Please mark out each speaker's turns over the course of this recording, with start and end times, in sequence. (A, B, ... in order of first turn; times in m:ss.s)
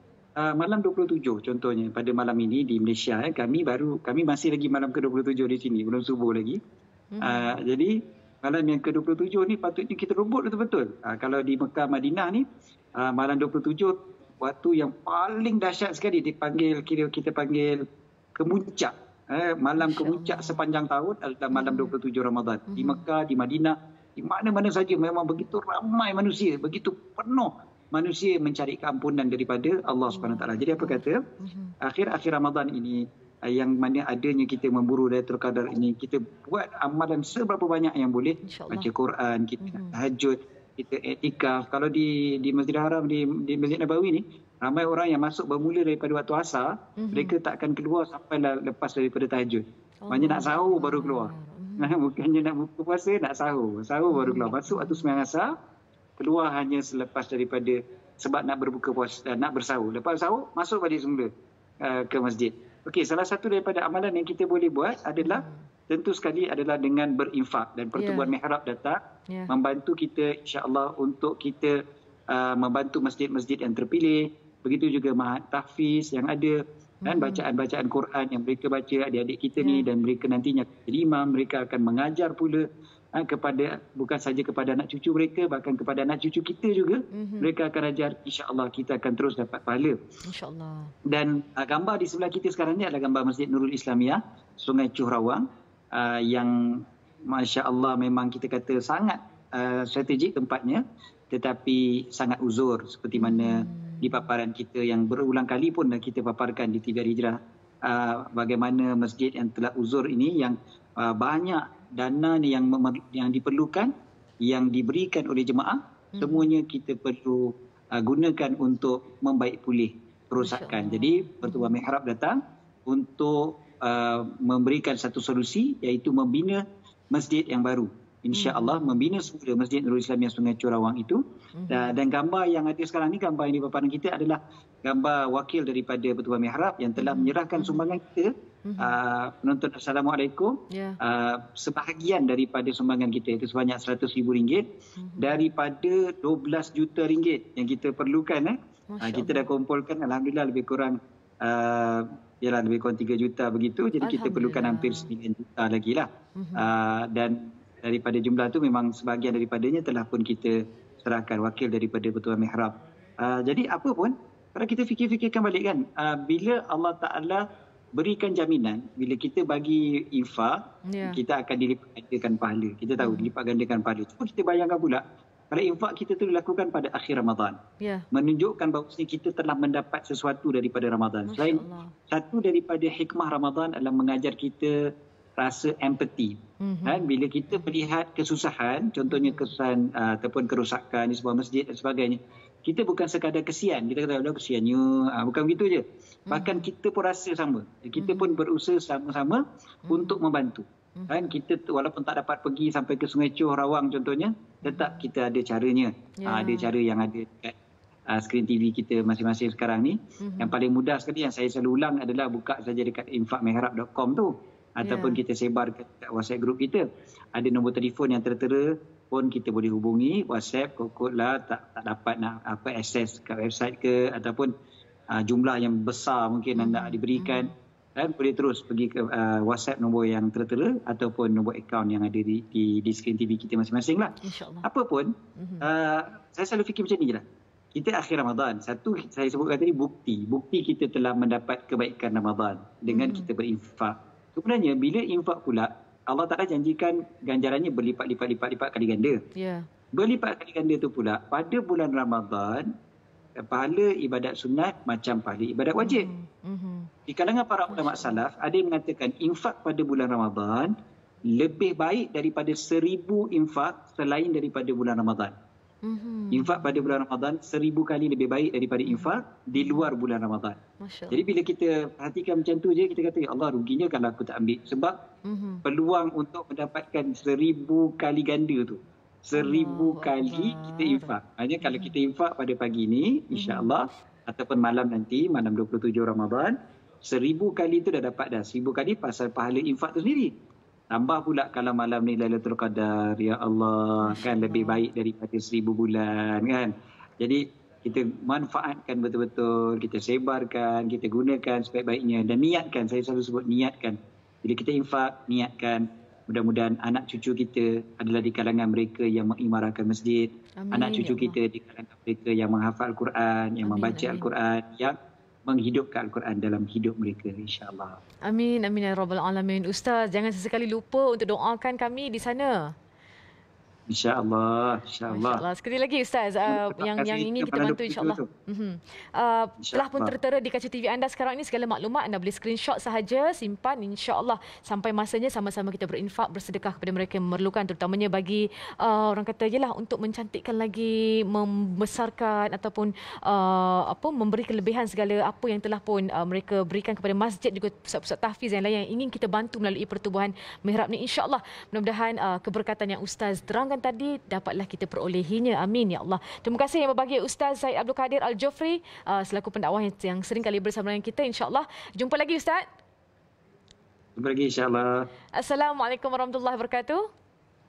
0:00.4-0:06.6 A
0:07.1-0:07.5 B
0:07.2-0:12.5 A
0:13.0-0:17.8 A
0:18.4-0:31.2 A
0:19.8-0:20.6 B
0:21.5-0:21.9 B
0:22.7-0:23.0 B
0:30.1-0:31.7 B
0:31.8-0:55.5 A
0:38.4-0:38.9 B
0:39.6-0:40.0 B
0:47.0-0:47.3 B
0:50.0-0:51.9 B
0:54.1-0:55.1 B
0:56.2-1:01.3 A
1:01.8-1:11.8 A
1:05.2-1:05.7 B
1:08.0-1:08.4 B
1:12.3-1:22.6 A
1:17.0-1:17.4 B
1:19.6-1:19.9 B
1:23.2-1:30.0 A
1:27.1-1:27.5 B
1:30.2-1:30.9 B
1:31.1-1:53.9 A
1:43.2-1:44.2 B
1:54.4-2:24.6 A
1:56.2-1:56.5 B
2:00.4-2:01.7 B
2:08.3-2:09.1 B
2:11.5-2:12.0 B
2:17.0-2:17.9 B
2:18.6-2:19.0 B
2:20.7-2:21.0 B
2:25.0-2:25.5 B
2:25.2-2:47.4 A
2:28.9-2:29.4 B
2:34.0-2:35.1 B
2:36.4-2:36.7 B
2:48.0-2:57.6 A
2:50.9-2:51.2 B
2:53.0-2:53.3 B
2:57.8-2:58.1 B
2:58.1-3:04.8 A
3:01.3-3:02.0 B
3:05.4-3:27.6 A
3:06.6-3:07.6 B
3:09.1-3:09.5 B
3:16.3-3:16.6 B
3:18.0-3:18.4 B
3:19.9-3:20.2 B
3:21.0-3:21.2 B
3:24.6-3:25.0 B
3:26.2-3:26.7 B
3:28.1-3:44.5 A
3:30.2-3:30.6 B
3:34.8-3:35.2 B
3:45.1-3:55.1 A
3:46.6-3:47.5 B
3:54.2-3:54.7 B
3:55.4-3:55.7 B
3:55.6-4:09.2 A
4:02.9-4:03.3 B
4:09.4-4:09.7 B
4:10.0-4:12.7 A
4:13.5-4:16.1 A
4:15.8-4:16.9 B
4:17.1-4:20.7 A
4:17.7-4:18.2 B
4:21.4-4:25.3 A
4:25.8-4:27.0 B
4:26.3-4:30.6 A
4:28.9-4:29.9 B
4:30.8-4:31.2 B
4:31.1-4:35.0 A
4:35.2-4:35.6 B
4:35.6-4:50.3 A
4:39.3-4:41.9 B
4:43.3-4:43.7 B
4:50.9-5:15.0 A
4:54.0-4:54.9 B
5:10.6-5:11.4 B
5:13.6-5:14.3 B
5:15.5-5:18.0 A
5:18.2-5:22.7 B
5:23.9-5:25.4 A
5:25.1-6:02.6 B
5:26.5-5:28.2 A
5:29.6-5:30.1 A
6:04.2-6:05.0 A
6:05.4-6:07.0 B